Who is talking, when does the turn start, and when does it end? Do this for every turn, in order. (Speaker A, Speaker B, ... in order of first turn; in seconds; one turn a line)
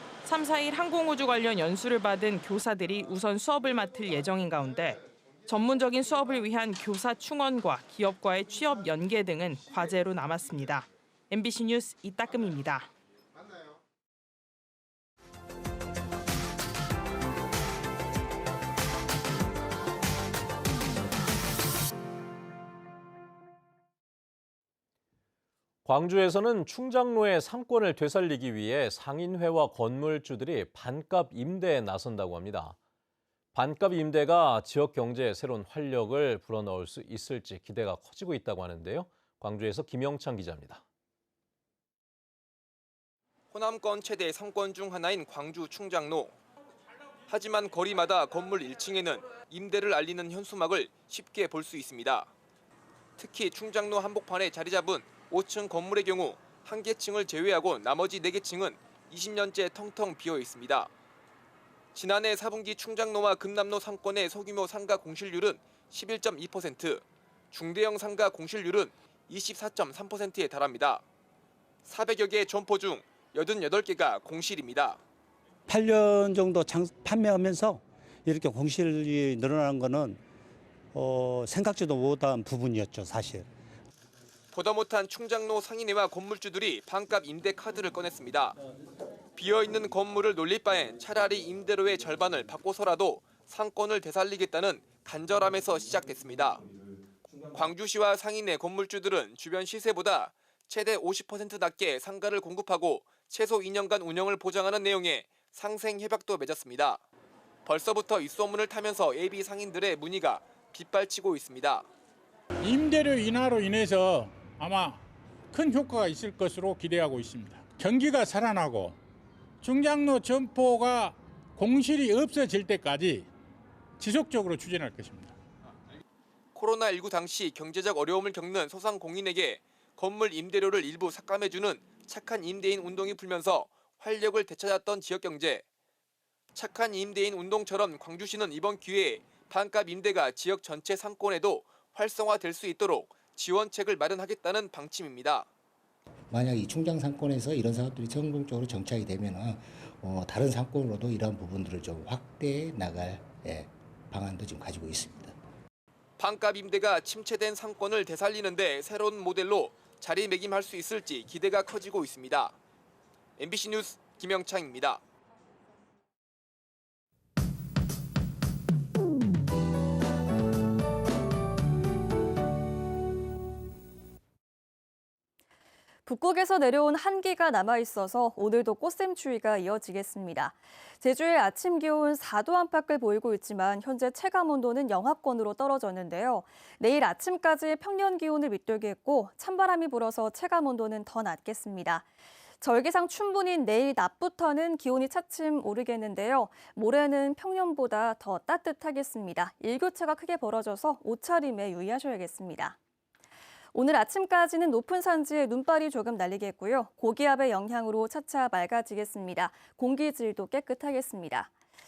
Speaker A: 0.2-12.9
Speaker B: 25.9-32.8
Speaker B: 33.5-40.8
Speaker C: 43.5-46.4
Speaker C: 47.3-52.3
Speaker C: 53.2-60.9
Speaker C: 62.0-71.0
Speaker C: 71.8-75.0
Speaker D: 75.7-80.2
Speaker D: 80.9-83.5
Speaker C: 84.5-88.6
Speaker C: 89.4-96.7
Speaker C: 97.5-107.0
Speaker C: 107.7-111.9
Speaker E: 112.6-115.0
Speaker E: 115.5-119.0
Speaker E: 119.6-123.3
Speaker E: 124.0-125.3
Speaker C: 126.5-135.6
Speaker C: 136.6-145.5
Speaker F: 146.4-149.6
Speaker F: 150.1-153.7
Speaker F: 154.2-155.3
Speaker C: 156.2-162.6
Speaker C: 163.4-165.0
Speaker G: 176.1-192.1
Speaker G: 192.6-202.8
Speaker G: 203.7-211.5